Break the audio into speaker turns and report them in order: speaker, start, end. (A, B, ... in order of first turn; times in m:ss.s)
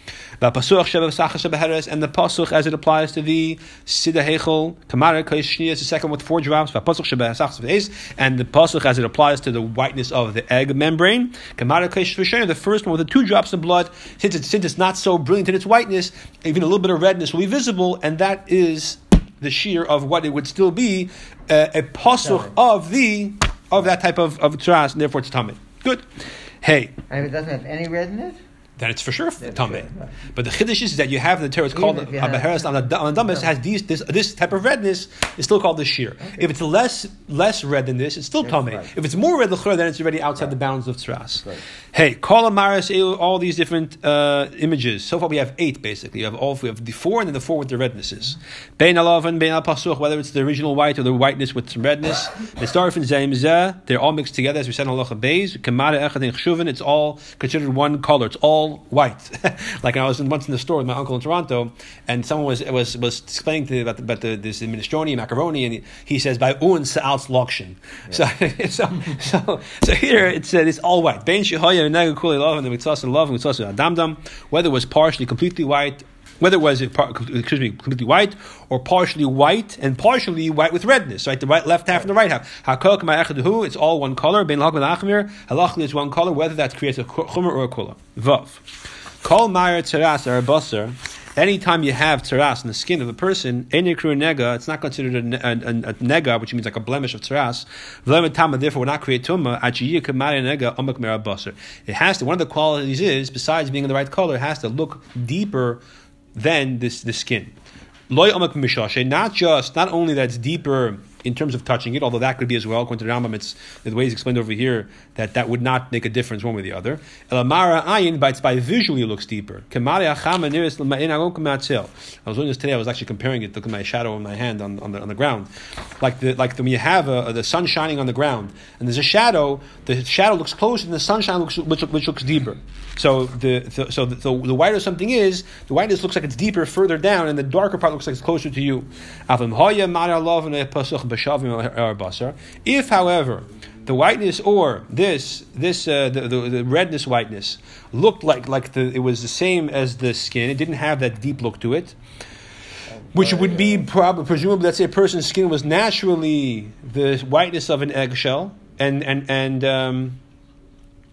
0:00.4-0:26.0 A
0:22.2-0:22.5 B
0:26.6-0:27.0 A
0:27.1-0:28.4 B
0:28.8-1:28.6 A
0:29.5-0:29.9 B
0:31.7-0:32.6 B
0:38.5-0:38.9 B
1:29.2-1:45.8 A
1:46.3-1:47.5 A
1:48.1-2:05.5 A
2:06.0-2:32.0 A
2:33.1-2:33.8 B
2:33.1-2:40.2 A